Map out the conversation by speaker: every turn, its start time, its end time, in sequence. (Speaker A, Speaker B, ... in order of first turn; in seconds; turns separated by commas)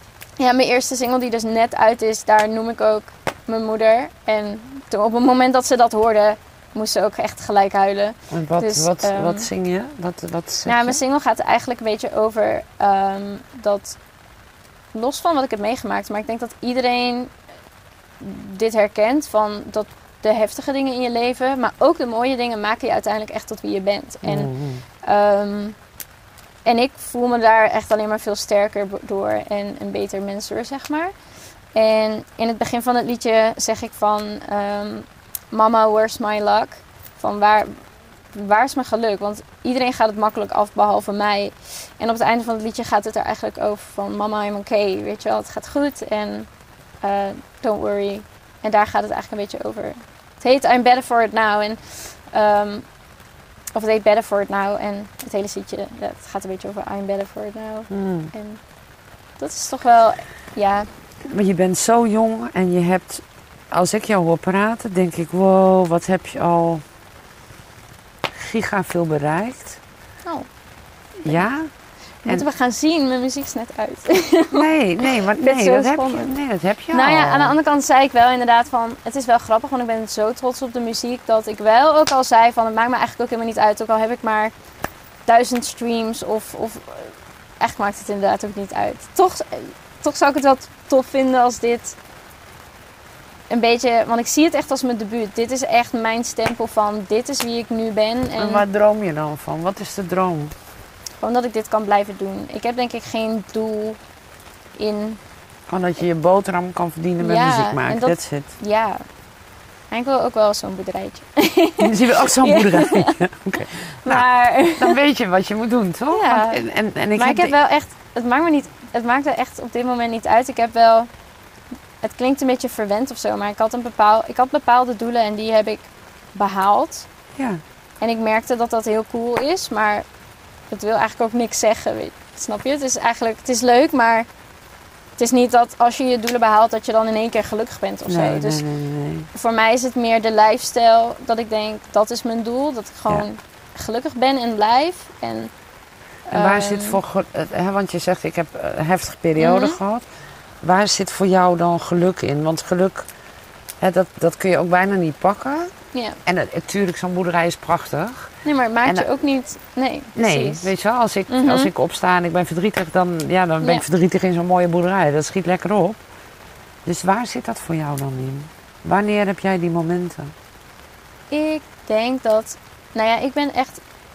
Speaker A: 0.4-9.5, Speaker B: 8.3-11.0, Speaker A: 10.6-14.0, Speaker A: 14.9-17.3, Speaker A: 18.2-25.8, Speaker B: 24.2-24.8, Speaker A: 26.6-31.1, Speaker A: 31.7-37.8, Speaker A: 38.3-46.5, Speaker A: 47.0-52.9, Speaker A: 53.7-58.6, Speaker B: 57.9-58.3, Speaker A: 59.4-60.9, Speaker B: 61.2-66.8, Speaker B: 68.3-69.8, Speaker B: 71.2-71.7, Speaker A: 72.2-76.3, Speaker B: 74.5-77.5, Speaker A: 76.9-84.5, Speaker A: 85.3-92.0, Speaker A: 93.5-98.7, Speaker B: 98.4-100.5, Speaker A: 101.2-104.0, Speaker A: 104.8-105.2, Speaker B: 105.7-108.5, Speaker A: 107.2-109.0, Speaker A: 109.9-113.2, Speaker B: 111.8-114.2, Speaker A: 114.0-115.0, Speaker B: 114.8-117.5, Speaker A: 116.1-116.6, Speaker A: 117.2-121.1, Speaker A: 122.0-127.1, Speaker B: 127.3-127.6, Speaker A: 128.0-130.1, Speaker A: 130.7-134.3, Speaker A: 135.2-138.6, Speaker B: 138.1-139.3, Speaker A: 139.3-145.5, Speaker A: 146.3-147.0, Speaker B: 146.3-150.1, Speaker A: 149.4-149.8, Speaker B: 150.6-153.1, Speaker B: 153.8-155.7, Speaker A: 155.9-156.2, Speaker B: 156.2-158.3, Speaker A: 158.4-160.7, Speaker B: 160.2-166.0, Speaker A: 161.3-161.7, Speaker B: 166.8-170.3, Speaker A: 171.3-173.8